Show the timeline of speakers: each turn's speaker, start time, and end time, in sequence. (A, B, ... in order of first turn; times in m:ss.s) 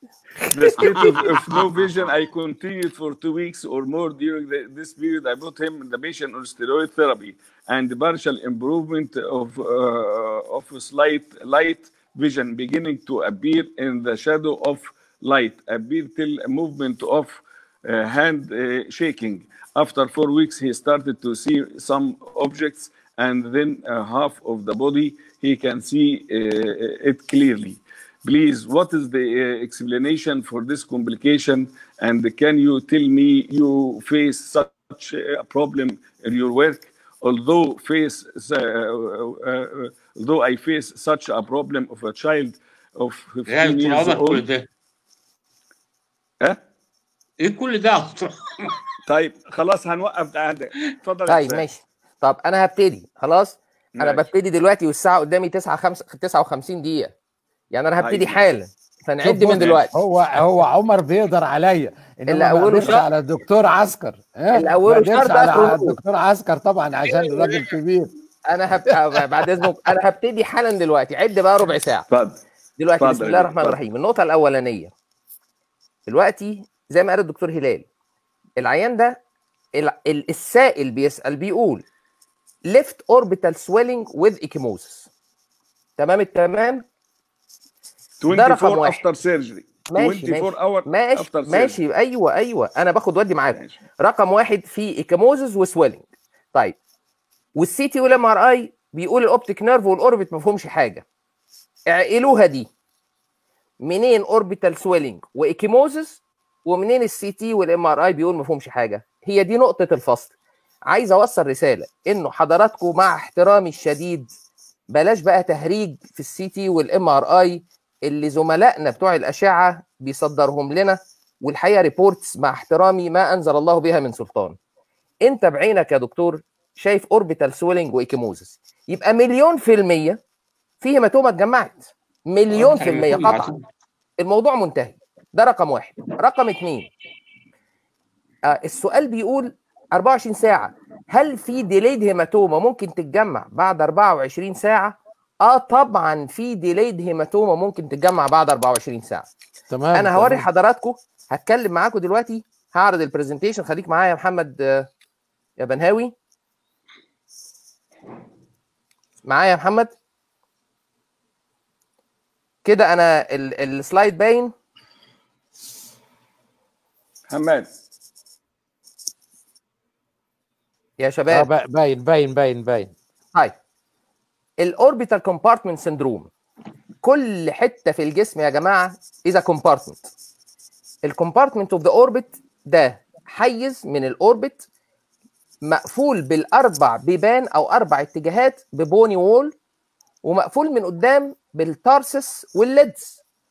0:00.5-0:44.4 A
0:43.5-0:44.7 B
0:47.4-0:48.8 B
0:49.1-0:51.7 A
0:51.3-0:57.1 C
0:54.0-0:54.2 A
0:57.7-0:59.9 C
0:58.0-0:58.4 A
0:59.2-1:08.1 D
0:59.6-0:59.8 A
1:02.3-1:03.0 C
1:04.5-1:06.0 C
1:07.1-1:07.7 B
1:08.5-1:12.1 C
1:12.1-1:12.4 A
1:12.8-1:14.9 C
1:13.0-1:13.8 A
1:16.1-1:17.9 C
1:18.6-1:19.2 C
1:19.8-1:21.8 C
1:22.7-1:25.1 C
1:26.0-1:26.8 C
1:28.2-1:31.8 A
1:28.3-1:29.0 C
1:29.9-1:36.8 C
1:37.6-1:41.0 C
1:41.9-1:42.7 C
1:43.8-1:50.3 C
1:50.9-1:54.3 C
1:54.9-2:04.6 C
2:05.2-2:10.2 C
2:10.8-2:13.5 C
2:12.5-2:13.6 B
2:14.2-2:16.9 C
2:18.5-2:29.3 C
2:29.7-2:30.4 D
2:29.9-2:34.9 C
2:35.6-2:36.1 C
2:39.2-2:39.9 C
2:42.6-2:44.5 C
2:47.3-2:47.7 A
2:51.0-2:51.5 C
2:51.3-2:52.9 D
2:54.6-2:56.3 C
2:57.0-3:00.1 C
3:01.0-3:04.6 C
3:05.6-3:09.5 C
3:10.2-3:13.2 C